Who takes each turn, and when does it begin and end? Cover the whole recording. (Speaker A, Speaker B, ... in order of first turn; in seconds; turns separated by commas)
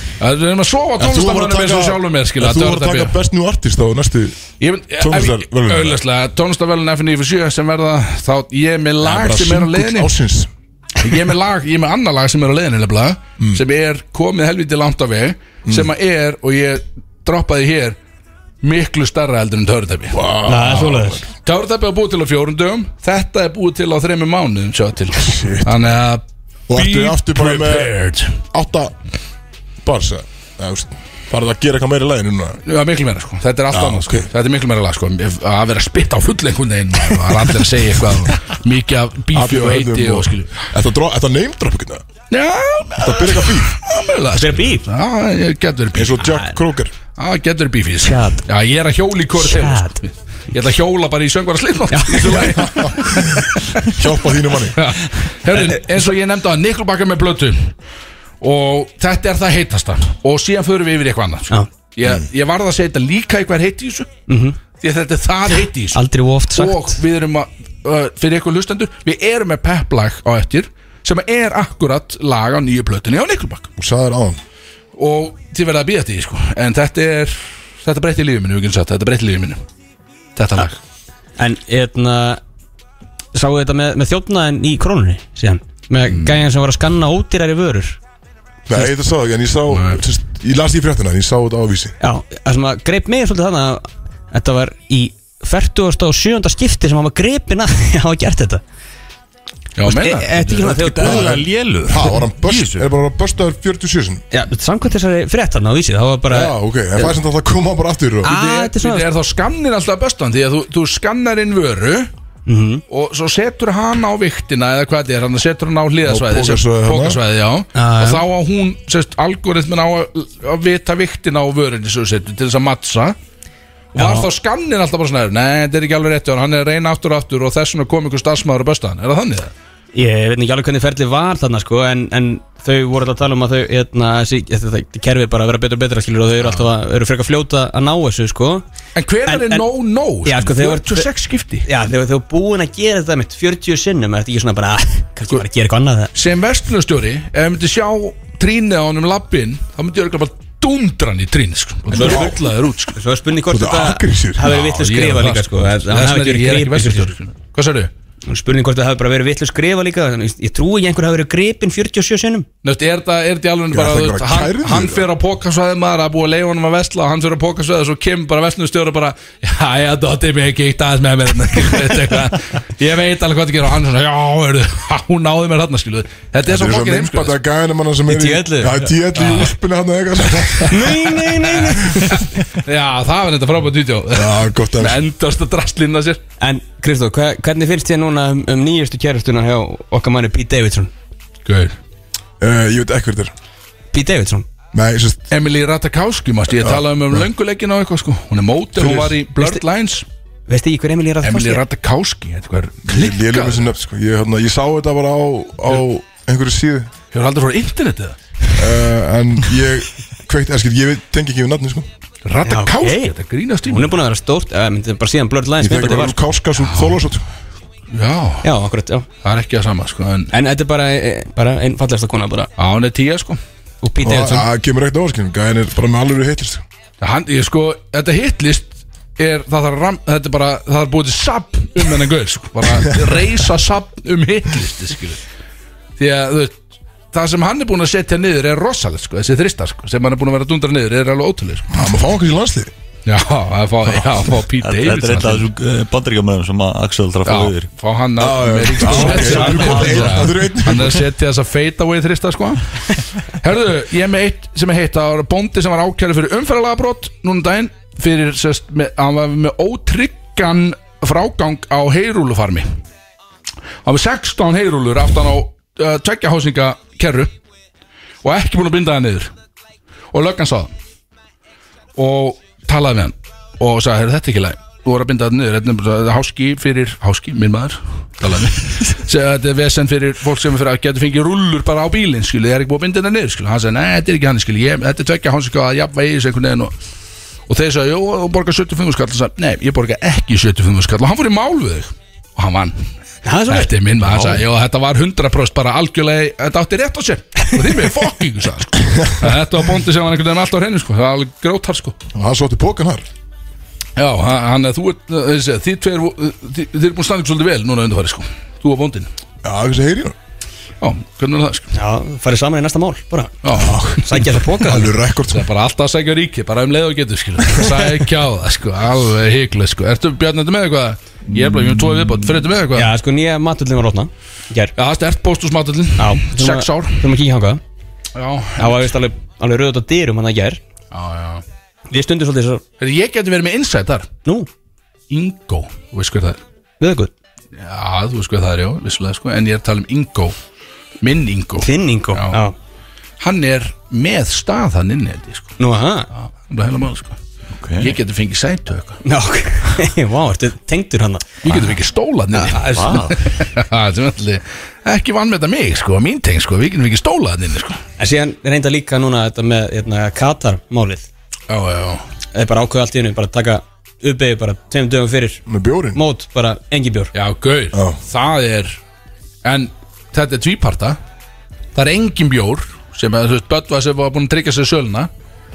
Speaker A: 0.2-3.2, Speaker B: 1.0-4.4, Speaker A: 4.6-10.1, Speaker B: 5.0-6.0, Speaker B: 9.0-10.5, Speaker A: 11.0-18.0, Speaker B: 15.7-15.9, Speaker A: 18.6-20.2, Speaker B: 20.1-21.3, Speaker C: 20.5-21.2, Speaker A: 21.4-28.4, Speaker B: 25.2-25.9, Speaker B: 26.7-27.9, Speaker B: 28.5-28.9, Speaker B: 29.8-32.6, Speaker A: 32.7-40.7, Speaker B: 33.7-34.3, Speaker B: 39.3-42.0, Speaker A: 42.3-46.4, Speaker B: 43.0-43.7, Speaker C: 44.4-44.8, Speaker B: 45.9-46.9, Speaker A: 47.2-53.9, Speaker C: 48.1-48.4, Speaker C: 49.4-50.0, Speaker C: 51.9-52.7, Speaker B: 52.8-54.9, Speaker A: 54.7-57.7, Speaker C: 55.5-55.8, Speaker A: 58.4-64.1, Speaker C: 64.3-64.6, Speaker A: 64.8-66.0, Speaker C: 65.9-67.0, Speaker A: 66.5-73.7, Speaker B: 73.8-74.4, Speaker A: 75.0-79.6, Speaker A: 80.4-80.8, Speaker C: 81.4-82.4, Speaker C: 83.3-88.0, Speaker B: 88.7-92.0, Speaker A: 89.7-90.0, Speaker C: 92.0-98.6, Speaker A: 99.8-100.5, Speaker C: 99.8-101.4, Speaker D: 100.5-102.9, Speaker B: 101.0-104.2, Speaker C: 104.3-107.1, Speaker B: 106.3-108.4, Speaker C: 108.2-109.1, Speaker A: 108.3-112.1, Speaker C: 112.5-112.8, Speaker A: 112.9-123.2, Speaker B: 116.0-117.2, Speaker C: 117.8-118.2, Speaker A: 124.0-129.5, Speaker C: 124.0-124.3, Speaker C: 129.9-138.6, Speaker A: 138.9-141.7, Speaker C: 139.3-139.7, Speaker C: 140.2-141.1, Speaker C: 141.7-146.1, Speaker A: 146.1-153.0, Speaker B: 151.9-152.4, Speaker C: 151.9-152.3, Speaker C: 152.9-157.1, Speaker B: 153.5-154.5, Speaker A: 154.4-157.9, Speaker C: 158.3-162.5, Speaker A: 162.6-177.4, Speaker B: 163.7-165.1, Speaker B: 176.4-181.2, Speaker C: 178.1-178.9, Speaker A: 179.2-179.5, Speaker C: 180.7-182.3, Speaker A: 181.4-186.2, Speaker B: 184.1-185.0, Speaker C: 186.4-190.9, Speaker A: 191.4-191.8, Speaker B: 192.4-193.3, Speaker C: 193.9-194.5, Speaker B: 194.7-195.3, Speaker A: 195.3-200.1, Speaker B: 196.6-197.3, Speaker C: 198.8-199.6, Speaker C: 200.5-201.6, Speaker A: 201.2-203.7, Speaker B: 202.9-206.9, Speaker A: 207.1-208.2, Speaker B: 208.6-211.9, Speaker A: 212.2-213.9, Speaker C: 212.5-213.1, Speaker C: 213.7-216.2, Speaker B: 215.6-217.2, Speaker A: 216.6-217.0, Speaker A: 217.9-218.5, Speaker C: 218.4-219.1, Speaker A: 219.2-220.3, Speaker C: 220.3-222.5, Speaker A: 222.6-223.4, Speaker C: 223.8-224.5, Speaker B: 224.0-226.6, Speaker A: 227.0-235.2, Speaker A: 236.0-236.6, Speaker A: 237.1-241.7, Speaker B: 241.7-242.7, Speaker A: 243.1-245.5, Speaker D: 244.6-247.7, Speaker A: 247.2-262.7, Speaker B: 248.2-251.1, Speaker D: 248.8-250.3, Speaker A: 263.9-267.3, Speaker A: 268.2-269.3, Speaker A: 270.1-270.7, Speaker A: 272.0-286.7, Speaker A: 287.5-292.9, Speaker C: 293.2-293.7, Speaker A: 293.5-302.0, Speaker B: 302.1-303.1, Speaker A: 304.0-309.1, Speaker B: 309.4-310.2, Speaker A: 310.8-311.7, Speaker C: 311.7-314.9, Speaker A: 313.4-314.3, Speaker B: 313.6-315.5, Speaker A: 315.3-322.9, Speaker C: 322.8-324.7, Speaker A: 324.8-327.1, Speaker C: 326.0-327.6, Speaker A: 328.1-329.0, Speaker C: 328.6-330.6, Speaker A: 330.9-331.4, Speaker C: 331.9-332.6, Speaker A: 332.8-334.1, Speaker A: 335.1-336.4, Speaker C: 336.8-337.1, Speaker A: 337.6-340.4, Speaker A: 341.0-342.4, Speaker C: 341.6-342.6, Speaker A: 343.2-345.5, Speaker C: 345.6-346.1, Speaker A: 346.1-347.2, Speaker D: 347.5-348.0, Speaker A: 347.8-349.0, Speaker C: 349.0-351.4, Speaker A: 351.4-357.8, Speaker D: 351.5-351.8, Speaker C: 352.3-352.6, Speaker D: 352.7-353.2, Speaker C: 358.0-361.1, Speaker A: 361.5-362.1, Speaker C: 362.3-365.4, Speaker B: 365.5-366.0, Speaker C: 365.9-367.1, Speaker A: 367.1-368.8, Speaker B: 367.7-368.0, Speaker A: 369.4-371.0, Speaker A: 371.8-375.1